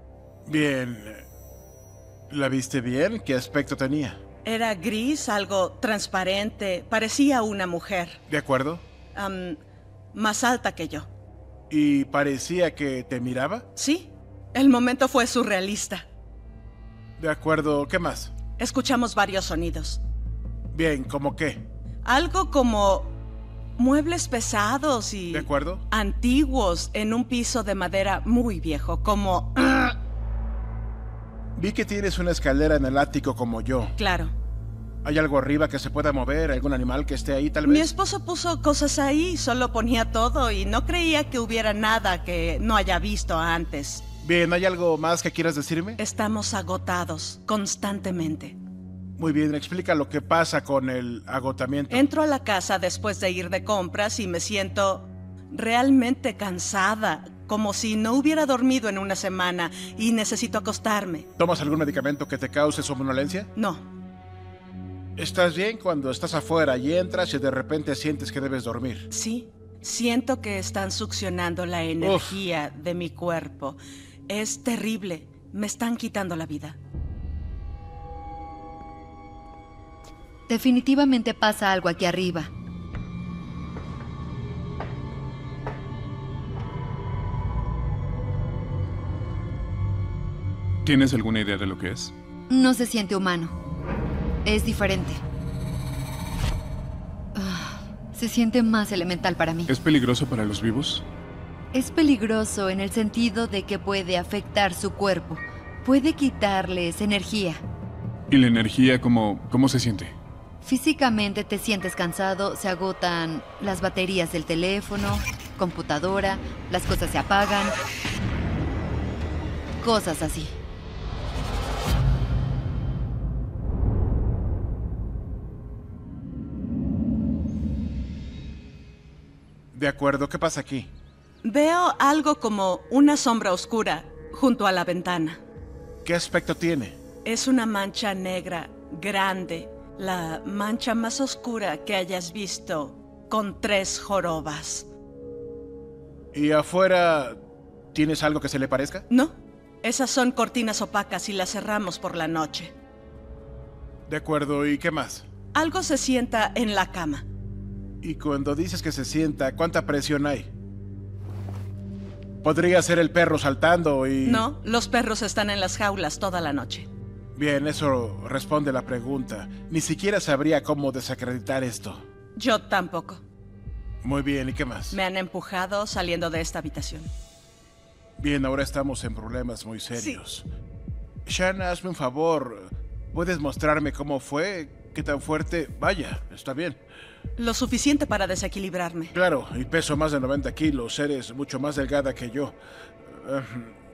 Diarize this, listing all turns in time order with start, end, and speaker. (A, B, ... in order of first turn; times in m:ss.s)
0:00.4-0:01.2 A
0:02.3-0:04.2 A
0:04.4-0:08.2 B
0:08.3-0:08.8 A
0:09.1-0:09.6 B
0:10.1-0:11.1 B
0:11.7-0:13.6 A
0:13.8-0:16.0 B
0:17.2-0:18.3 A
0:18.6-0:20.0 B
0:20.7-0:21.6 A
0:22.0-0:23.2 B
0:23.8-0:30.0 B
0:25.3-0:25.8 A
0:31.6-0:34.0 A
0:34.0-0:34.3 B
0:35.0-0:37.9 A
0:37.6-0:44.0 B
0:44.2-0:46.0 A
0:46.0-0:48.6 B
0:49.2-0:52.0 A
0:51.9-1:01.3 B
1:01.4-1:03.5 A
1:03.5-1:03.8 B
1:05.2-1:09.1 A
1:09.1-1:16.8 B
1:12.0-1:12.4 A
1:20.5-1:22.5 C
1:30.8-1:32.1 D
1:32.5-1:33.5 C
1:34.4-1:35.2 C
1:37.3-1:39.7 C
1:39.7-1:41.0 D
1:41.7-1:47.6 C
1:48.3-1:50.1 D
1:50.6-1:57.8 C
1:59.8-2:00.6 C
2:09.7-2:10.9 A
2:11.4-2:15.4 B
2:16.0-2:17.0 A
2:17.2-2:24.9 B
2:26.3-2:27.4 A
2:27.9-2:29.0 A
2:29.1-2:32.7 B
2:34.1-2:35.3 A
2:35.5-2:37.2 B
2:38.0-2:40.5 A
2:42.4-2:44.4 A
2:44.2-2:46.9 B
2:47.4-2:52.0 A
2:52.4-2:53.2 B
2:54.0-2:55.0 A
2:54.9-2:57.1 B
2:58.2-3:00.5 A
2:59.9-3:00.2 B
3:01.2-3:06.8 A
3:07.4-3:09.1 B
3:09.1-3:13.7 A